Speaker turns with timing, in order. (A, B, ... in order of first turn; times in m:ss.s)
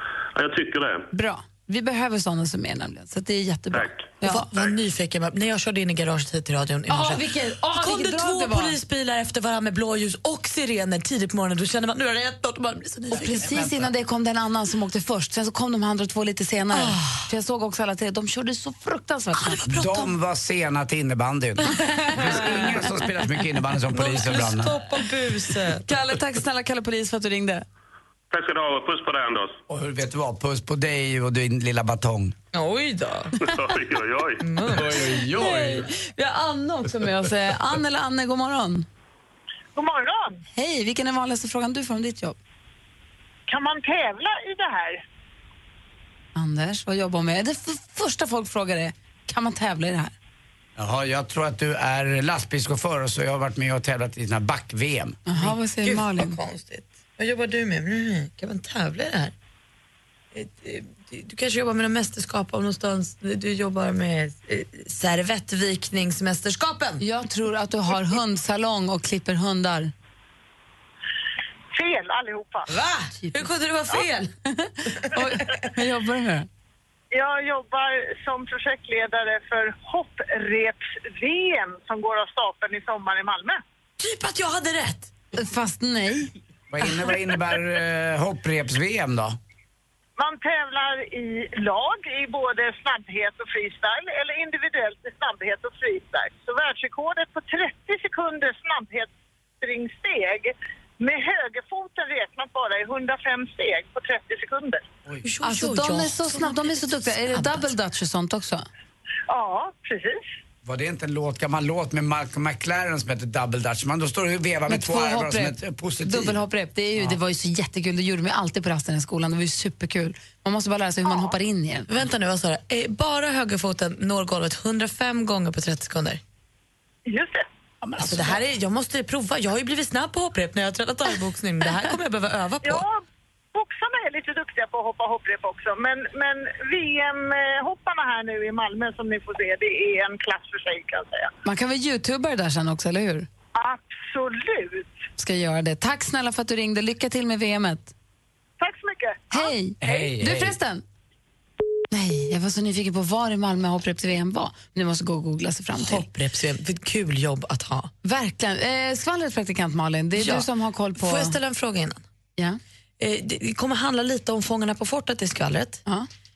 0:00.4-0:01.0 A
0:01.1-0:04.4 B
0:03.7-0:04.1 A
0:04.2-0:13.7 C
0:06.9-0:08.7 B
0:13.1-0:13.9 D
0:13.1-0:19.6 B
0:16.7-0:17.2 C
0:19.3-0:20.1 C
0:19.7-0:24.8 D
0:22.1-0:22.8 B
0:22.2-0:22.7 C
0:23.9-0:25.8 C
0:25.8-0:27.6 B
0:28.3-0:29.6 A
0:29.7-0:32.3 D
0:32.5-0:33.3 C
0:33.4-0:34.4 A
0:34.4-0:35.1 C
0:35.2-0:38.9 B
0:39.8-0:40.4 E
0:40.5-0:42.4 B
0:43.5-0:45.0 E
0:46.3-0:50.1 B
0:50.8-0:55.2 D
0:55.3-0:56.4 B
0:55.4-0:59.3 C
1:00.3-1:07.0 C
1:07.0-1:09.9 B
1:11.7-1:12.7 E
1:12.7-1:14.3 C
1:13.2-1:13.5 B
1:14.6-1:16.5 B
1:17.1-1:23.6 E
1:24.0-1:25.1 C
1:25.4-1:26.3 B
1:26.7-1:29.4 D
1:30.2-1:44.8 E
1:45.2-1:47.7 C
1:45.4-1:48.6 B
1:49.3-1:50.2 E
1:50.6-1:56.4 D
1:54.7-2:01.9 B
2:01.1-2:01.3 E
2:01.9-2:06.2 C
2:07.1-2:07.4 E
2:07.8-2:08.4 D
2:08.0-2:12.8 C
2:12.6-2:13.0 E
2:13.5-2:21.3 E
2:21.4-2:23.3 B
2:23.6-2:24.9 E
2:25.2-2:27.9 B
2:28.6-2:29.5 E
2:29.3-2:30.8 B
2:29.8-2:30.6 D
2:31.9-2:36.0 B
2:35.8-2:37.9 C
2:38.0-2:41.4 B
2:40.2-2:42.0 C
2:43.0-2:45.8 C